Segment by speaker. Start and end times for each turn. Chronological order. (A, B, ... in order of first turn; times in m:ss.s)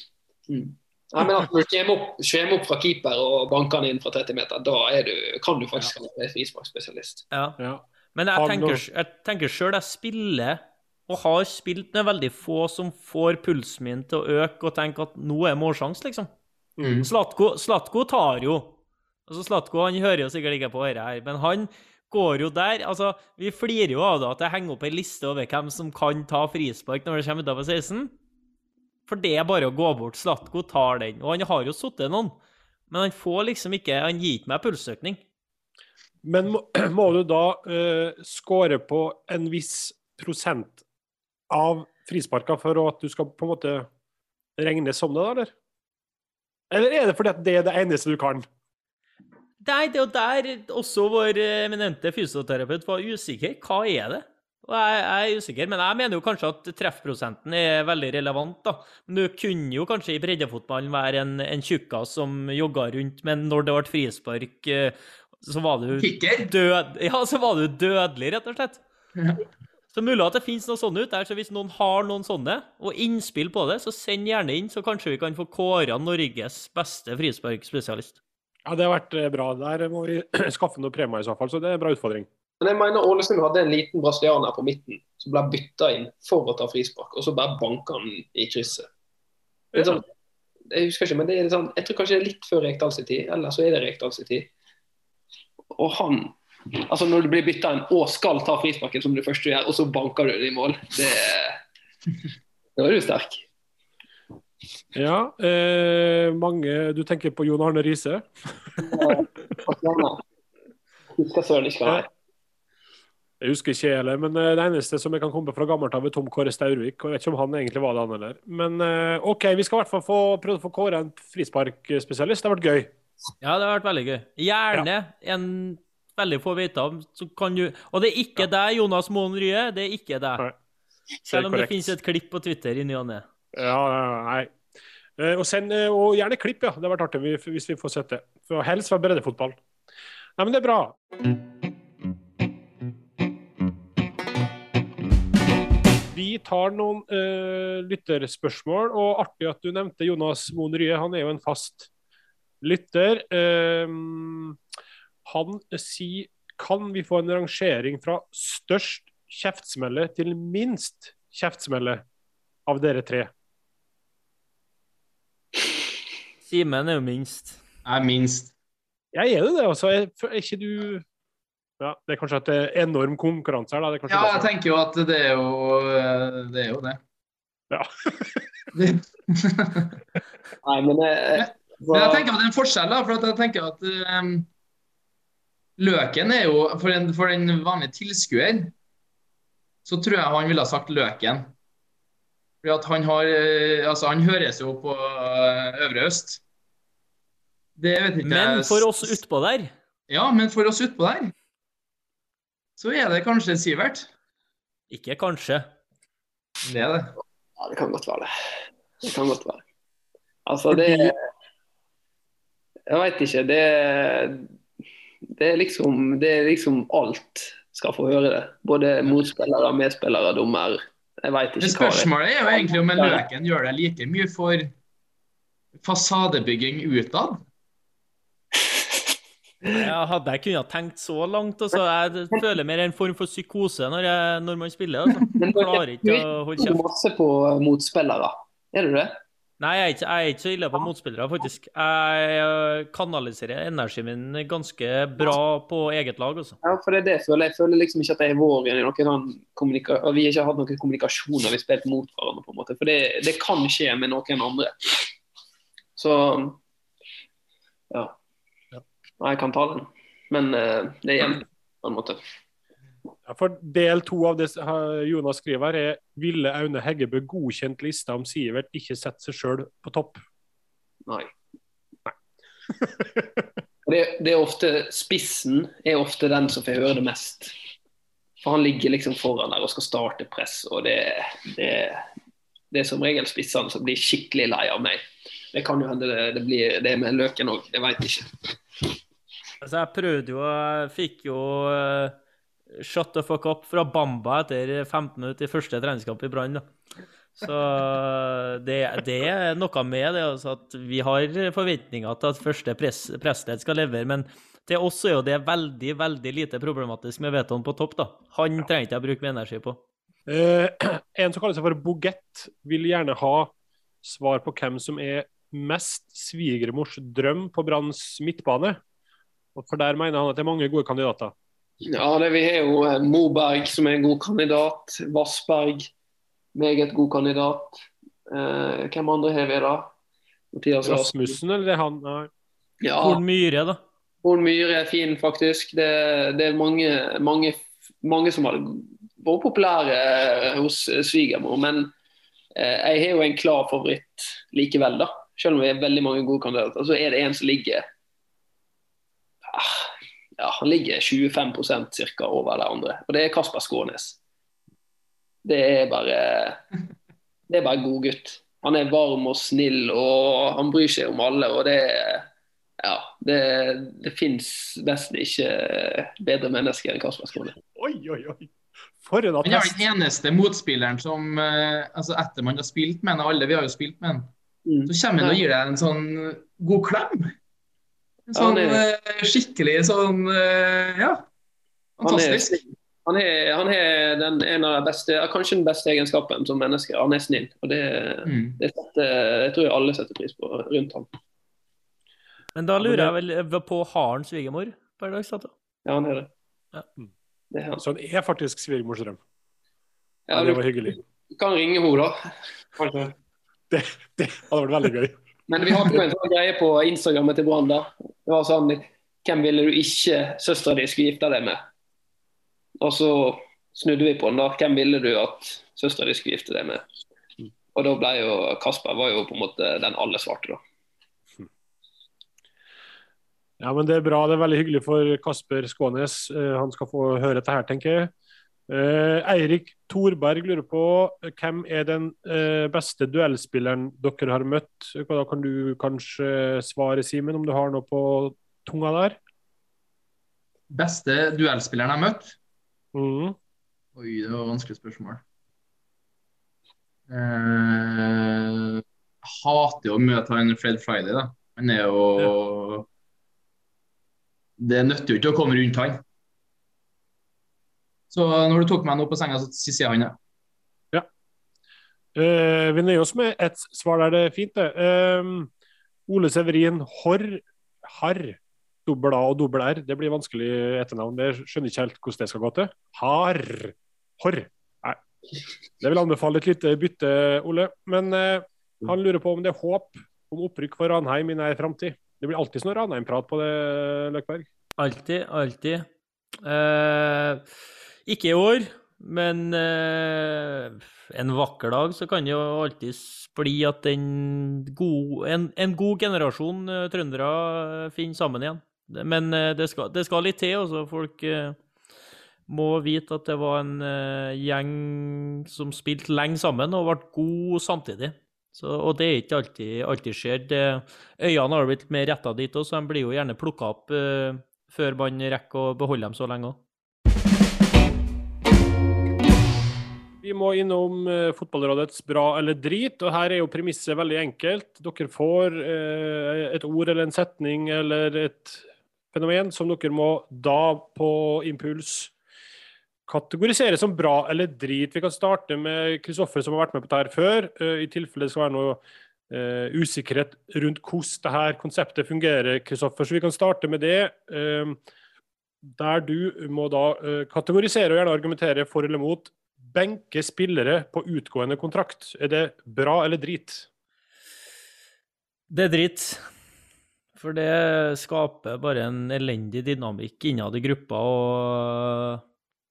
0:00.5-0:07.2 A
0:07.3-0:07.6 B
0:08.1-0:16.3 B
0:08.3-0:08.8 C
0:16.8-0:17.1 D
0:17.0-0:18.7 B
0:19.3-0:28.1 B
0:29.1-0:32.3 B
0:32.9-0:35.2 B
0:36.2-0:40.8 C
0:41.5-0:43.9 C
0:44.6-0:45.5 C
0:46.7-0:48.4 C
0:49.6-1:08.8 B
1:06.0-1:06.5 D
1:09.9-1:18.2 B
1:18.6-1:22.3 C
1:22.6-1:28.9 A
1:29.7-1:30.0 C
1:29.7-1:30.1 A
1:30.7-1:34.5 A
1:35.7-1:41.6 A
1:42.8-1:43.4 A
1:44.9-1:49.2 C
1:48.8-1:50.2 A
1:51.1-1:52.1 A
1:53.4-2:02.9 C
2:03.4-2:10.4 B
2:11.2-2:11.9 C
2:11.2-2:13.2 B
2:13.5-2:14.5 C
2:15.2-2:19.6 C
2:20.4-2:21.0 C
2:26.1-2:31.9 C
2:32.6-2:34.6 C
2:35.2-2:42.0 C
2:42.7-2:43.3 C
2:46.4-2:47.6 B
2:47.8-2:48.5 D
2:49.1-2:51.0 C
2:51.8-2:54.5 C
2:54.1-2:57.0 D
2:57.7-2:58.5 C
2:58.7-3:00.0 D
3:00.6-3:02.3 A
3:01.3-3:04.5 D
3:05.8-3:08.7 D
3:09.8-3:11.5 D
3:12.6-3:16.4 D
3:17.8-3:19.1 D
3:18.2-3:19.7 B
3:20.1-3:21.3 D
3:22.8-3:24.1 D
3:24.9-3:25.7 B
3:26.6-3:27.1 D
3:27.6-3:28.3 A
3:29.0-3:29.6 A
3:30.4-3:31.2 A
3:32.9-3:34.4 A
3:35.3-3:43.2 A
3:41.6-3:44.7 D
3:45.8-3:47.4 D
3:48.6-3:49.0 A
3:49.7-3:56.8 B
3:55.4-3:59.2 A
3:59.6-4:06.6 B
4:06.6-4:15.1 A
4:16.0-4:16.6 A
4:17.9-4:18.2 A
4:19.2-4:22.2 A
4:23.2-4:30.2 C
4:32.8-4:33.2 C
4:33.8-4:37.5 A
4:38.4-4:42.0 A
4:42.7-4:45.0 A
4:45.5-4:48.3 A
4:49.6-4:52.2 B
4:52.7-4:56.6 B
4:57.4-5:09.8 B
5:10.3-5:18.8 C
5:19.5-5:21.3 C
5:21.8-5:25.9 A
5:26.5-5:27.8 A
5:28.3-5:29.9 A
5:30.5-5:31.3 A
5:30.8-5:32.3 C
5:32.8-5:33.2 A
5:33.0-5:33.8 B
5:34.2-5:41.9 A
5:42.6-5:47.8 A
5:49.5-5:54.2 A
5:55.4-5:56.6 A
5:57.5-6:02.3 A
6:02.8-6:07.5 A
6:07.7-6:09.8 C
6:09.4-6:14.3 D
6:14.6-6:15.4 A
6:14.9-6:17.3 D
6:18.3-6:21.2 D
6:18.3-6:18.8 A
6:22.0-6:22.6 D
6:22.0-6:31.1 A
6:28.2-6:28.6 D
6:32.5-6:35.5 B
6:32.8-6:33.1 A
6:35.8-6:36.3 A
6:37.5-6:37.8 A
6:37.8-6:39.2 C
6:40.3-6:42.2 A
6:40.3-6:41.0 C
6:42.8-6:43.1 A
6:43.7-6:45.2 C
6:45.5-6:51.6 A
6:45.7-6:46.0 C
6:52.8-6:56.8 A
6:57.7-7:00.6 A
7:03.6-7:08.1 C
7:08.7-7:19.2 C
7:20.7-7:22.4 D
7:22.9-7:23.4 C
7:24.0-7:25.2 D
7:27.1-7:32.9 D
7:34.6-7:36.0 D
7:38.1-7:40.2 D
7:42.2-7:45.5 C
7:46.1-7:55.0 C
7:55.8-8:04.5 C
8:04.8-8:05.9 B
8:06.4-8:07.4 B
8:08.0-8:21.6 B
8:22.5-8:36.6 B
8:40.2-8:52.1 C
8:53.1-9:04.8 C
9:05.6-9:13.7 C
9:15.5-9:16.2 B
9:17.2-9:22.2 B